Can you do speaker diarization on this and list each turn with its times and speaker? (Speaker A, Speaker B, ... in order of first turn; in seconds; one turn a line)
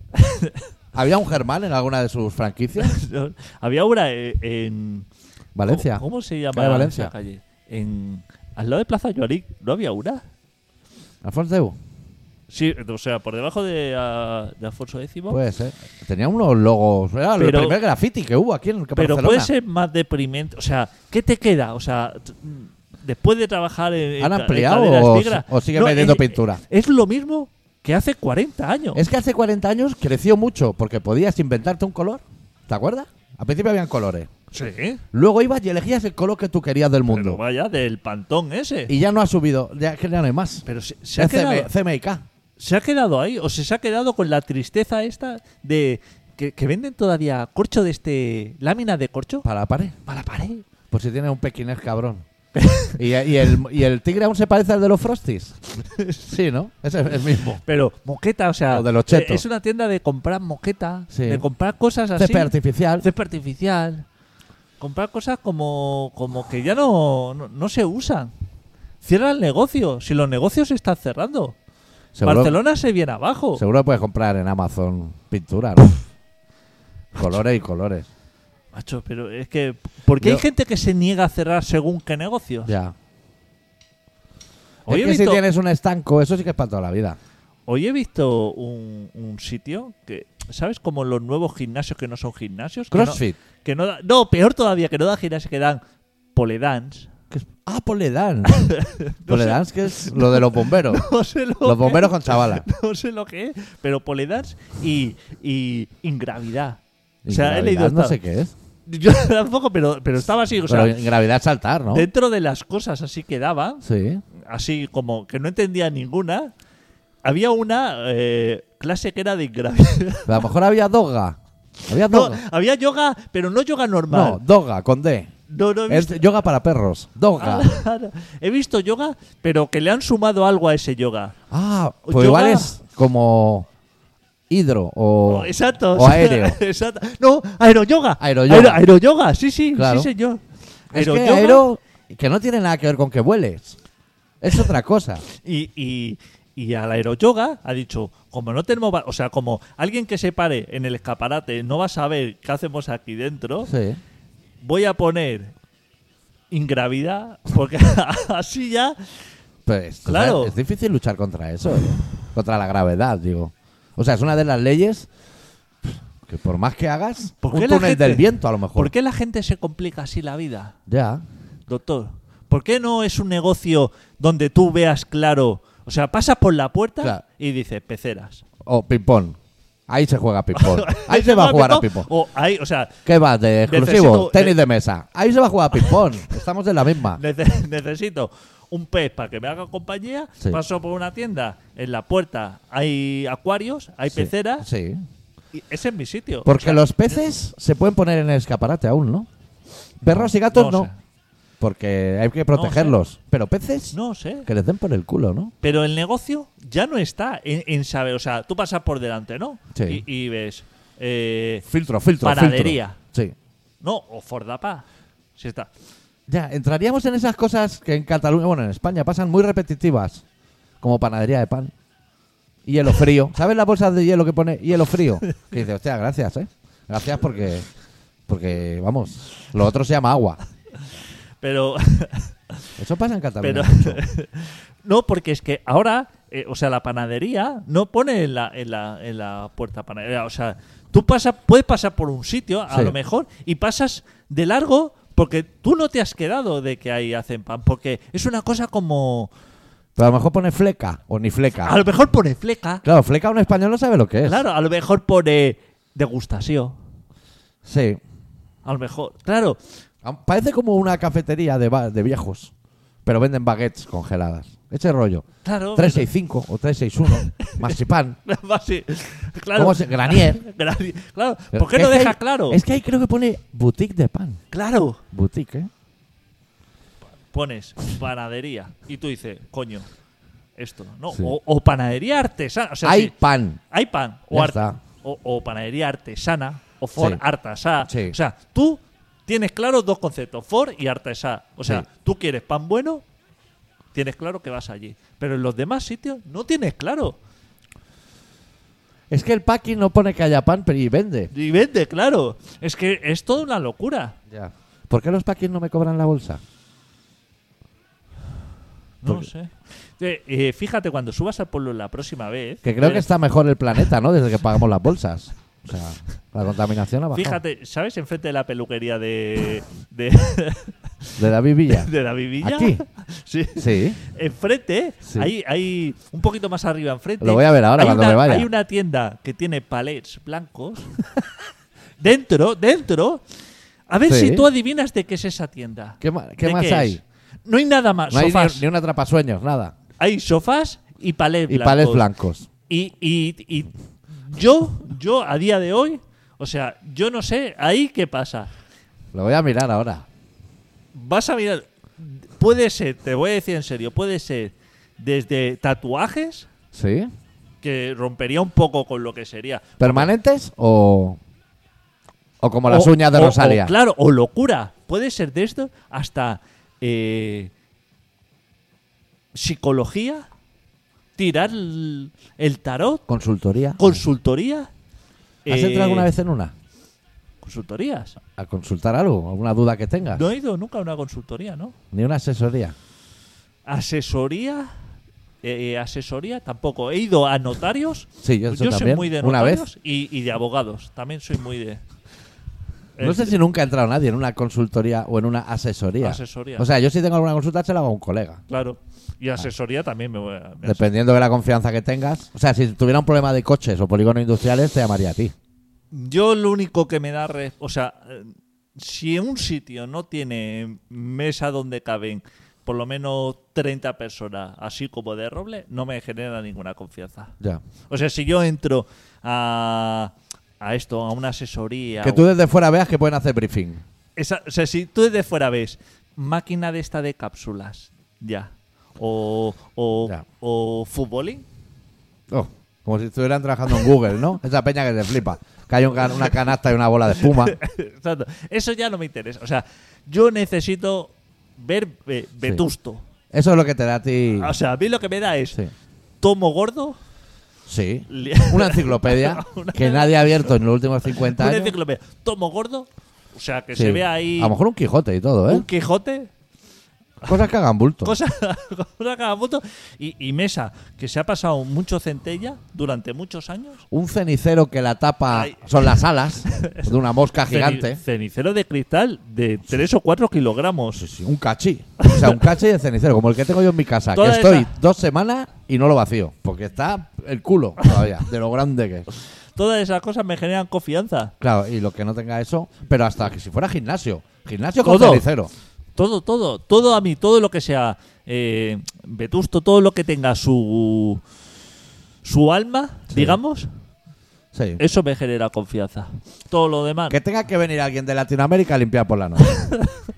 Speaker A: 0.2-0.6
Speaker B: 0.9-3.0
Speaker A: 2.8-5.1
Speaker B: 5.5-7.1
Speaker A: 5.7-10.2
Speaker B: 11.2-11.8
Speaker A: 12.5-15.4
Speaker B: 15.3-19.5
Speaker A: 17.4-17.8
Speaker A: 18.9-29.0
Speaker B: 24.2-26.6
Speaker B: 28.9-34.3
Speaker A: 34.5-35.0
Speaker B: 35.1-37.4
Speaker A: 37.1-38.9
Speaker B: 38.9-40.6
Speaker A: 40.6-41.7
Speaker B: 41.2-42.2
Speaker A: 42.6-49.5
Speaker B: 49.4-50.0
Speaker A: 50.0-50.6
Speaker B: 50.9-52.2
Speaker A: 52.5-53.0
Speaker B: 53.0-55.5
Speaker A: 55.9-56.2
Speaker B: 56.3-57.6
Speaker A: 57.6-64.0
Speaker B: 58.7-59.4
Speaker B: 61.1-61.4
Speaker B: 62.1-63.0
Speaker A: 64.8-68.3
Speaker A: 69.0-71.5
Speaker B: 72.1-72.5
Speaker A: 72.2-73.6
Speaker B: 73.5-76.0
Speaker B: 77.1-78.1
Speaker A: 78.7-82.7
Speaker B: 80.2-80.4
Speaker B: 82.6-82.9
Speaker A: 84.9-85.4
Speaker B: 84.9-87.2
Speaker A: 87.7-95.8
Speaker B: 92.9-93.4
Speaker A: 96.3-97.1
Speaker B: 97.3-98.7
Speaker A: 98.5-108.2
Speaker B: 99.3-101.0
Speaker B: 101.6-102.7
Speaker B: 107.2-108.5
Speaker A: 108.9-111.0
Speaker B: 110.7-112.1
Speaker A: 111.9-113.8
Speaker B: 113.8-114.2
Speaker A: 114.4-116.5
Speaker A: 117.2-120.4
Speaker B: 120.3-122.4
Speaker A: 121.9-124.4
Speaker B: 124.1-125.3
Speaker A: 125.5-126.2
Speaker B: 125.9-127.7
Speaker A: 127.4-131.3
Speaker B: 131.5-133.7
Speaker A: 132.1-132.7
Speaker B: 134.5-136.6
Speaker A: 135.2-141.7
Speaker B: 138.2-138.8
Speaker B: 139.7-140.1
Speaker B: 140.9-143.8
Speaker B: 144.4-145.2
Speaker A: 145.4-153.7
Speaker B: 153.7-154.0
Speaker A: 154.6-155.5
Speaker A: 156.5-159.1
Speaker B: 159.7-165.1
Speaker A: 160.1-160.5
Speaker B: 165.8-168.9
Speaker A: 167.4-170.7
Speaker B: 170.9-171.2
Speaker A: 171.7-178.4
Speaker B: 178.6-179.4
Speaker B: 179.9-182.1
Speaker A: 180.5-182.9
Speaker B: 183.0-187.2
Speaker A: 183.7-184.6
Speaker A: 187.1-194.7
Speaker B: 194.1-195.0
Speaker A: 195.5-196.8
Speaker B: 196.4-199.3
Speaker B: 200.0-200.9
Speaker A: 200.1-200.9
Speaker B: 201.6-205.5
Speaker A: 202.5-202.9
Speaker A: 203.9-204.5
Speaker A: 205.6-211.7
Speaker B: 209.7-210.0
Speaker B: 211.7-213.3
Speaker A: 212.2-213.0
Speaker A: 213.8-214.8
Speaker A: 215.4-215.7
Speaker B: 216.3-220.2
Speaker B: 220.8-221.7
Speaker B: 222.6-227.7
Speaker B: 228.3-230.4
Speaker A: 231.4-232.3
Speaker B: 232.8-234.0
Speaker A: 233.4-249.3
Speaker B: 242.7-242.9
Speaker B: 249.9-251.8
Speaker A: 251.6-252.8
Speaker B: 252.8-254.4
Speaker A: 254.2-256.7
Speaker B: 257.6-258.0
Speaker A: 258.6-259.6
Speaker B: 260.0-262.5
Speaker B: 263.0-268.2
Speaker A: 265.4-266.1
Speaker A: 267.1-272.6
Speaker B: 269.6-270.4
Speaker B: 271.5-274.4
Speaker A: 274.5-275.0
Speaker B: 275.1-275.7
Speaker A: 277.3-279.9
Speaker A: 280.6-283.1
Speaker B: 282.8-283.6
Speaker A: 283.7-293.0
Speaker B: 284.3-284.8
Speaker B: 286.9-287.2
Speaker B: 287.8-288.1
Speaker A: 293.9-297.2
Speaker B: 299.1-301.3
Speaker A: 301.3-304.2
Speaker B: 304.3-306.4
Speaker A: 309.0-313.1
Speaker B: 312.6-317.4
Speaker A: 317.1-321.2
Speaker B: 321.2-322.8
Speaker A: 321.7-330.9
Speaker B: 323.6-324.0
Speaker B: 325.0-325.3
Speaker B: 327.2-328.5
Speaker A: 332.0-333.2
Speaker A: 333.9-338.6
Speaker B: 334.1-334.5
Speaker B: 336.0-337.0
Speaker B: 338.1-339.7
Speaker A: 340.0-342.1
Speaker B: 341.5-342.5
Speaker A: 342.7-348.5
Speaker B: 349.1-350.1
Speaker A: 350.9-356.5
Speaker B: 356.7-357.1
Speaker A: 357.6-360.1
Speaker B: 359.8-361.2
Speaker B: 362.4-363.7
Speaker A: 362.6-367.5
Speaker A: 369.3-370.2
Speaker A: 371.2-373.0
Speaker B: 373.1-374.0
Speaker A: 373.8-374.7
Speaker A: 375.4-376.1
Speaker B: 375.5-376.5
Speaker A: 377.4-378.2
Speaker B: 378.4-380.3
Speaker A: 380.1-381.7
Speaker B: 381.9-382.7
Speaker A: 383.6-384.7
Speaker A: 385.4-391.8
Speaker B: 388.2-389.6
Speaker A: 393.0-393.4
Speaker B: 393.0-398.4
Speaker A: 396.0-396.7
Speaker A: 398.5-400.8
Speaker B: 400.6-405.3
Speaker A: 405.9-417.3
Speaker A: 417.9-422.2
Speaker B: 422.0-423.8
Speaker A: 424.1-431.4
Speaker B: 432.3-437.6
Speaker A: 437.2-443.0
Speaker B: 443.3-444.5
Speaker A: 444.4-445.6
Speaker A: 446.2-447.0
Speaker B: 447.6-451.7
Speaker A: 448.1-450.5
Speaker A: 451.1-454.5
Speaker B: 453.7-455.6
Speaker A: 455.5-456.3
Speaker B: 457.2-458.2
Speaker A: 458.0-463.8
Speaker B: 463.9-468.0
Speaker A: 465.3-465.9
Speaker A: 466.5-466.9
Speaker A: 467.5-471.0
Speaker B: 470.9-479.1
Speaker A: 472.0-472.4
Speaker A: 474.1-474.7
Speaker A: 479.6-481.3
Speaker B: 481.4-485.5
Speaker A: 484.8-485.3
Speaker A: 485.9-491.2
Speaker A: 492.2-493.7
Speaker B: 493.1-493.4
Speaker B: 494.5-494.8
Speaker A: 494.8-497.2
Speaker B: 497.1-499.7
Speaker A: 499.6-499.9